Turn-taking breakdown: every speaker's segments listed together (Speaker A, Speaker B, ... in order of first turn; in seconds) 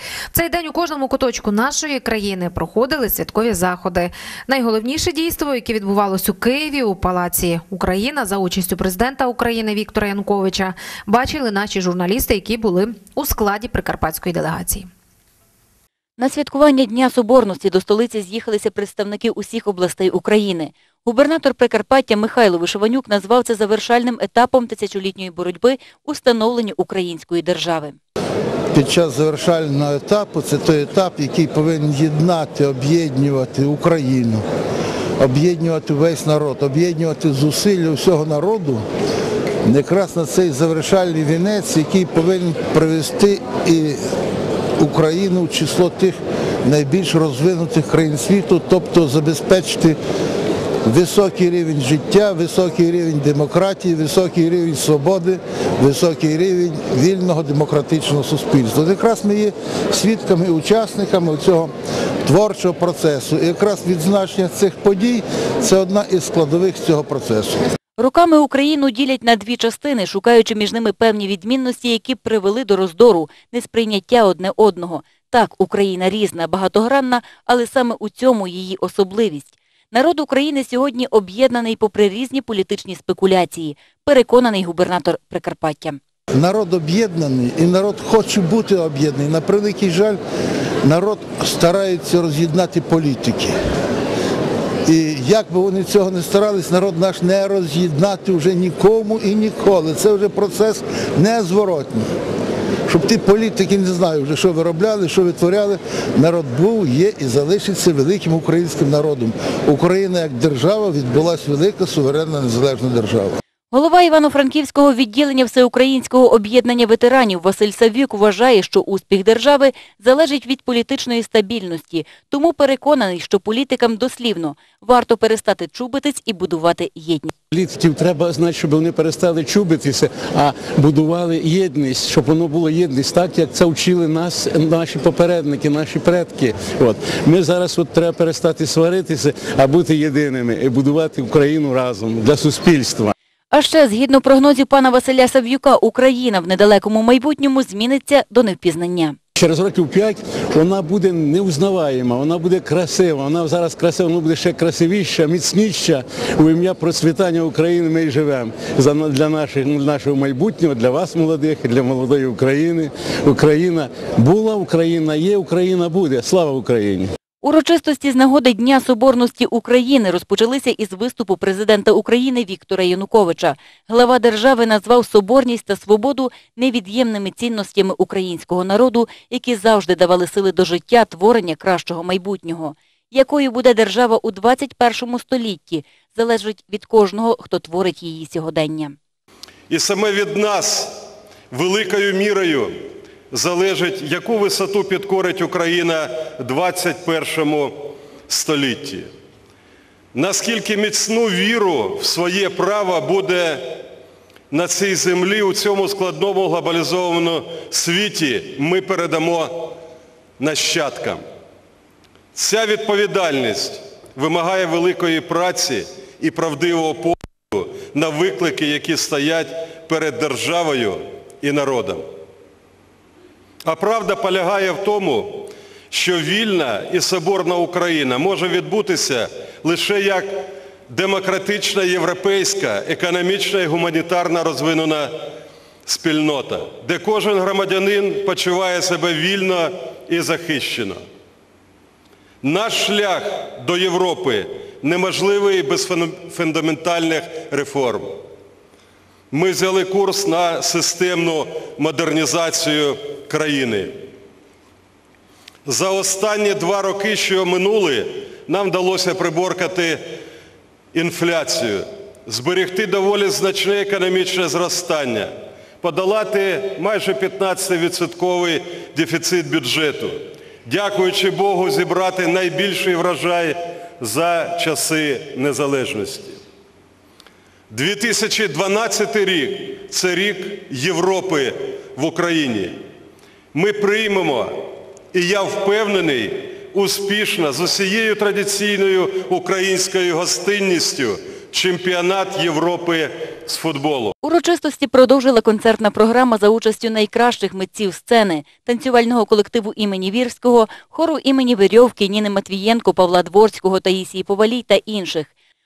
Speaker A: 0.3-14.9
Speaker B: 16.2-28.0, 68.0-86.0, 113.7-127.3, 143.5-149.2, 167.4-188.9, 294.2-305.3
Speaker C: 28.7-34.4, 35.2-38.8, 39.6-44.0, 44.8-50.0, 50.8-61.7, 62.2-67.6, 86.3-90.2, 90.8-93.5, 94.8-102.1, 102.9-113.4
Speaker D: 127.5-143.1, 149.4-167.1
Speaker E: 189.7-197.8, 198.3-199.1, 200.1-203.6, 204.5-209.7, 210.4-211.2, 212.3-222.1, 223.6-235.1, 235.8-241.0, 242.4-248.2, 249.3-253.9, 255.7-260.0, 260.9-276.4, 277.7-282.8, 283.5-294.1